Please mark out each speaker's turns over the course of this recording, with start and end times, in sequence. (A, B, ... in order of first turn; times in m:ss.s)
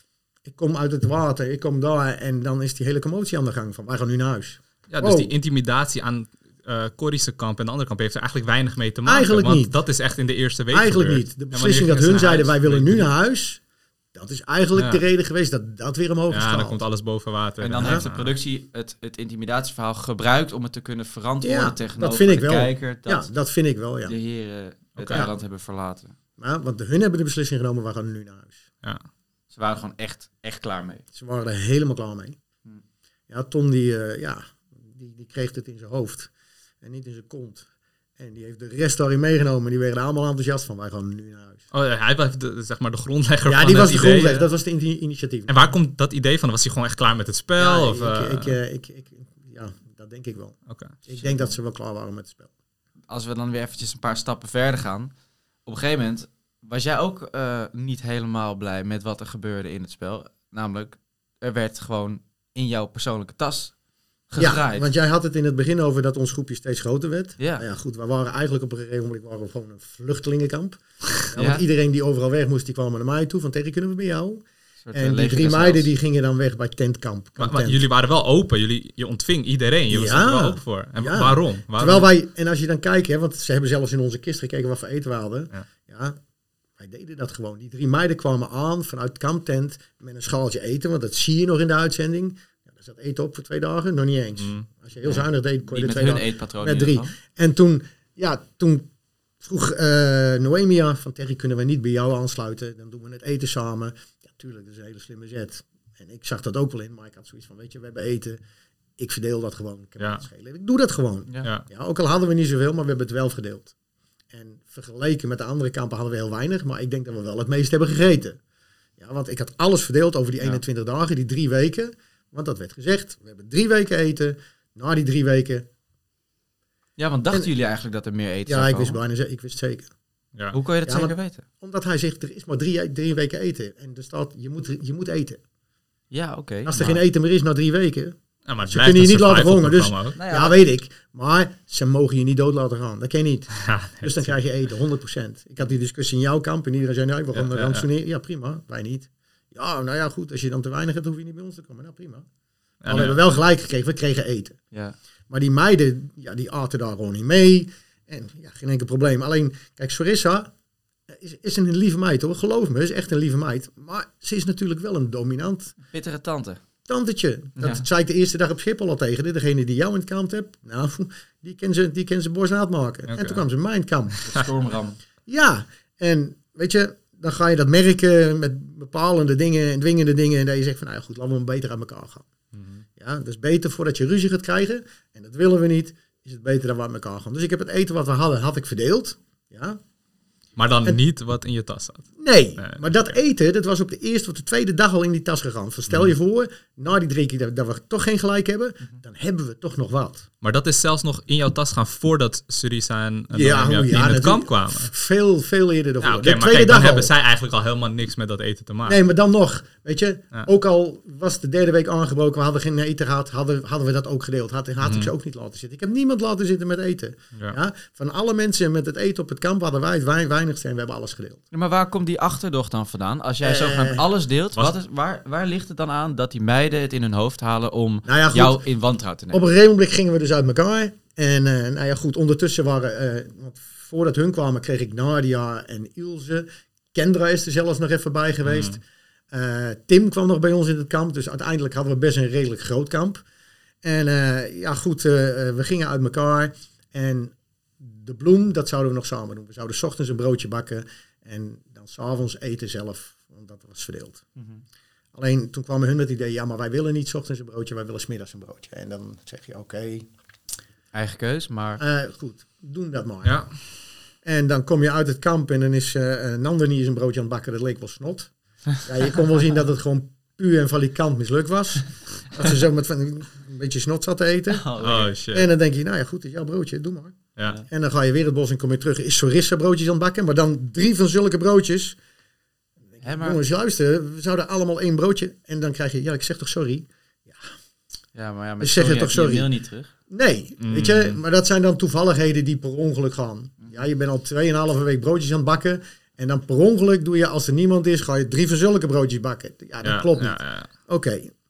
0:00.5-0:05.3 A
0:04.9-0:13.1 B
0:09.1-0:09.7 A
0:10.7-0:13.6 A
0:14.1-0:16.8 A
0:14.8-0:15.0 B
0:16.3-0:18.4 B
0:17.6-0:23.3 C
0:17.8-0:18.0 A
0:21.4-0:24.2 A
0:24.1-0:26.2 C
0:25.0-0:25.3 B
0:26.4-0:28.6 A
0:29.5-0:31.0 C
0:31.2-0:32.4 A
0:33.3-0:36.3 A
0:36.8-0:37.6 A
0:38.2-0:41.6 A
0:41.7-0:44.5 B
0:43.5-0:45.6 A
0:45.5-0:48.6 B
0:47.6-0:50.6 A
0:50.7-0:51.0 B
0:51.1-0:52.5 A
0:53.1-0:55.1 C
0:55.7-1:03.7 C
1:04.3-1:04.9 C
1:04.4-1:17.8 A
1:07.4-1:07.6 C
1:11.3-1:11.6 C
1:14.8-1:15.9 C
1:17.4-1:22.1 B
1:19.9-1:26.2 A
1:26.8-1:38.9 A
1:34.4-1:34.7 B
1:35.0-1:37.1 C
1:39.4-1:48.4 A
1:49.0-1:53.7 A
1:54.3-1:58.4 A
1:59.0-2:05.7 A
2:07.0-2:09.0 C
2:08.5-2:09.9 A
2:10.5-2:11.4 C
2:10.8-2:15.4 A
2:16.1-2:17.0 C
2:16.6-2:32.3 A
2:18.5-2:20.2 B
2:20.2-2:20.6 C
2:23.6-2:24.3 B
2:27.3-2:27.9 B
2:32.8-2:33.2 B
2:32.9-2:34.6 A
2:35.3-2:40.5 A
2:41.1-2:45.7 A
2:45.9-2:46.6 C
2:46.9-2:54.3 A
2:47.6-2:47.8 C
2:53.1-2:53.4 B
2:54.3-2:55.0 C
2:55.3-3:02.3 A
3:02.5-3:02.8 B
3:03.0-3:09.8 A
3:10.6-3:13.2 B
3:12.2-3:20.3 A
3:20.4-3:24.9 B
3:23.3-3:27.1 A
3:26.0-3:29.0 B
3:28.9-3:41.4 A
3:34.8-3:35.1 B
3:41.5-3:49.5 C
3:43.4-3:44.0 A
3:48.1-3:48.6 A
3:49.3-3:58.8 A
3:58.4-3:58.8 B
3:59.3-4:03.2 A
4:03.8-4:14.2 A
4:15.1-4:20.1 A
4:20.9-4:21.8 C
4:21.8-4:23.4 A
4:23.2-4:23.5 B
4:24.2-4:34.7 A
4:34.5-4:35.1 C
4:34.8-4:35.5 B
4:35.3-4:37.2 A
4:37.7-4:42.0 A
4:42.9-4:47.4 A
4:43.0-4:43.4 C
4:48.2-4:49.9 C
4:48.6-4:49.5 A
4:50.1-5:01.3 A
4:50.6-4:51.2 B
4:59.8-5:00.7 B